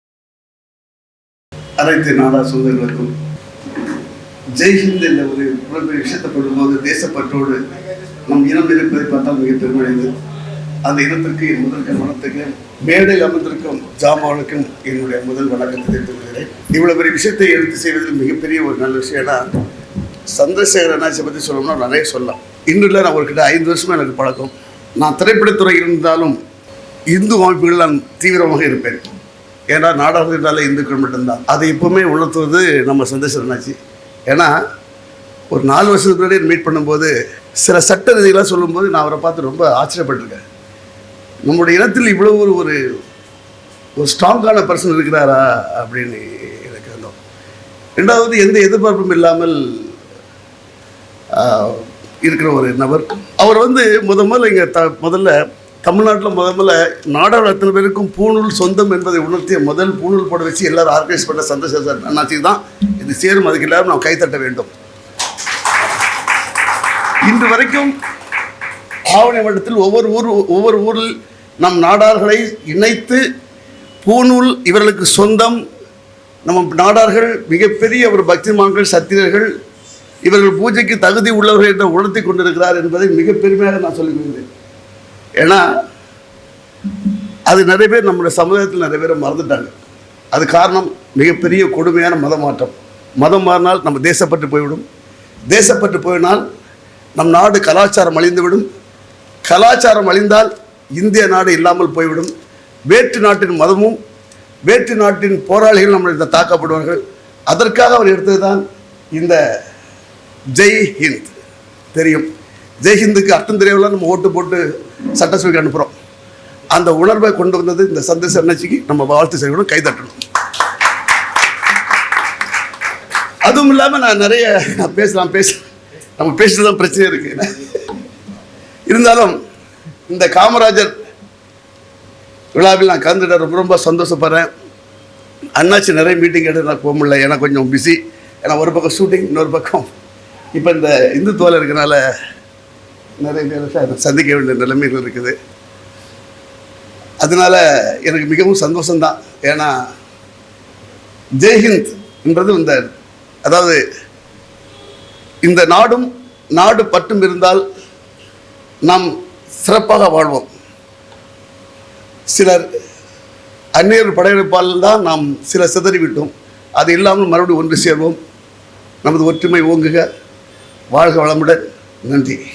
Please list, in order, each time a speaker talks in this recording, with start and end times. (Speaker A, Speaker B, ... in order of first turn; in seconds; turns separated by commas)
Speaker A: 1.8-3.1, Speaker A: 4.6-7.6, Speaker A: 8.2-10.1, Speaker A: 10.8-19.4, Speaker A: 20.3-26.4, Speaker A: 27.1-29.1, Speaker A: 29.7-33.8, Speaker A: 35.5-40.4, Speaker A: 41.4-42.8, Speaker A: 44.0-47.2, Speaker A: 48.0-49.9, Speaker A: 51.3-64.7, Speaker A: 67.2-67.9, Speaker A: 69.1-71.1, Speaker A: 71.6-73.2, Speaker A: 74.0-75.6, Speaker A: 76.4-79.5, Speaker A: 80.2-84.5, Speaker A: 85.4-85.6, Speaker A: 87.5-89.7, Speaker A: 90.3-94.8, Speaker A: 95.5-96.4, Speaker A: 97.2-98.6, Speaker A: 99.5-102.3, Speaker A: 102.9-104.0, Speaker A: 104.7-108.6, Speaker A: 110.5-111.3, Speaker A: 111.9-112.3, Speaker A: 112.8-114.6, Speaker A: 115.2-115.9, Speaker A: 116.7-120.2, Speaker A: 123.4-125.5, Speaker A: 126.2-128.0, Speaker A: 128.9-129.3, Speaker A: 130.1-130.9, Speaker A: 132.5-134.5, Speaker A: 135.6-139.9, Speaker A: 140.6-142.0, Speaker A: 143.2-145.3, Speaker A: 147.2-149.7, Speaker A: 151.4-152.9, Speaker A: 153.4-153.8, Speaker A: 155.4-157.6, Speaker A: 159.6-160.5, Speaker A: 162.3-162.6, Speaker A: 163.8-168.2, Speaker A: 169.0-170.0, Speaker A: 170.9-172.4